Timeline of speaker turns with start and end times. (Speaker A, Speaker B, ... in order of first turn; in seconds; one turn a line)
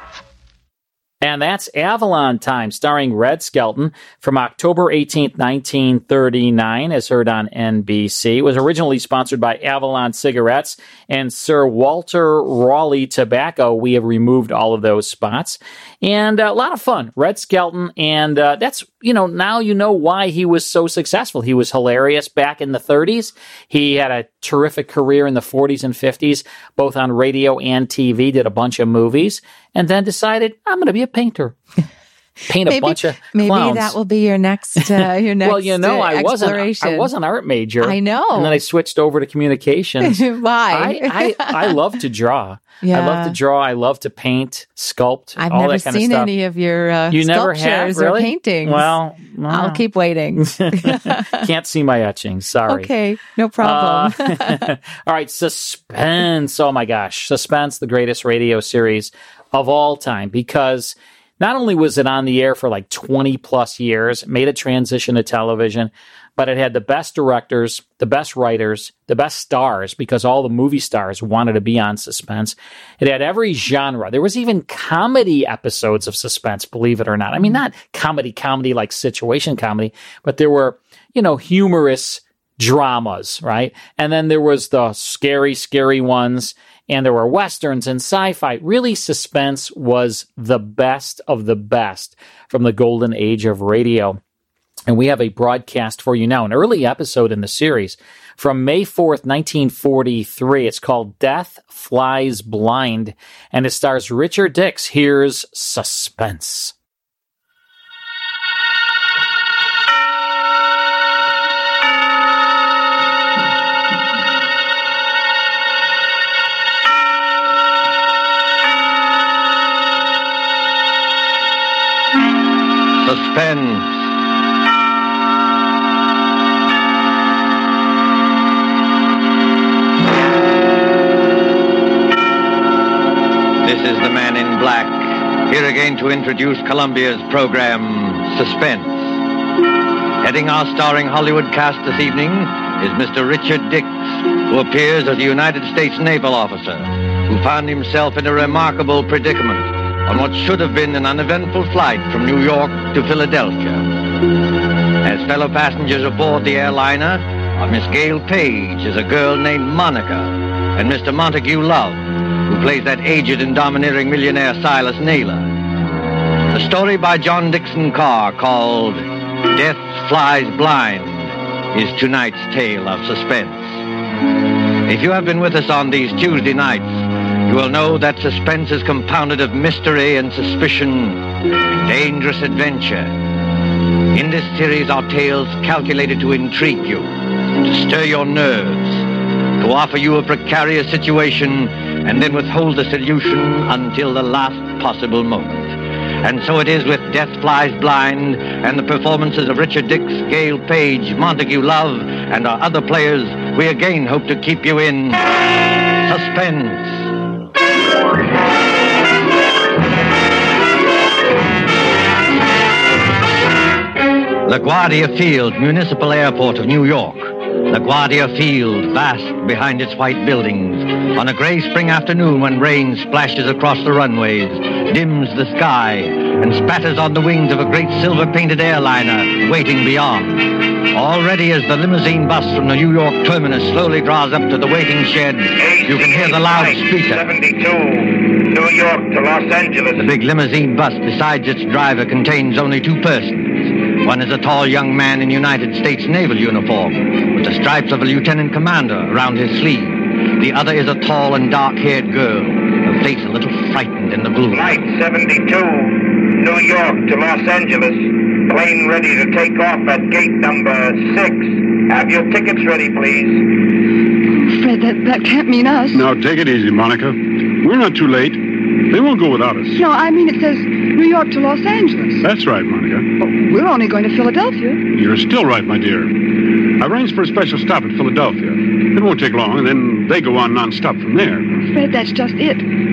Speaker A: 1.2-31.6
Speaker A: 32.5-34.0
Speaker B: 32.6-37.1
Speaker A: 35.4-46.3
Speaker B: 37.8-38.6
Speaker B: 40.0-41.8
Speaker B: 42.8-43.4
Speaker B: 45.4-48.9
Speaker A: 47.1-52.9
Speaker B: 49.5-51.4
Speaker B: 52.7-54.6
Speaker A: 53.6-94.2
Speaker A: 94.9-106.7
Speaker C: 123.0-124.1
Speaker C: 133.6-139.2
Speaker C: 140.2-153.9
Speaker C: 155.0-165.5
Speaker C: 166.5-173.8
Speaker C: 174.8-183.1
Speaker C: 184.1-207.1
Speaker C: 214.4-237.3
Speaker D: 235.6-240.1
Speaker C: 240.0-254.8
Speaker D: 254.5-263.4
Speaker E: 264.3-266.1
Speaker F: 265.9-269.8
Speaker E: 269.7-272.2
Speaker F: 272.2-273.1
Speaker E: 273.2-274.8
Speaker F: 274.9-276.1
Speaker F: 276.8-281.6
Speaker E: 281.7-282.7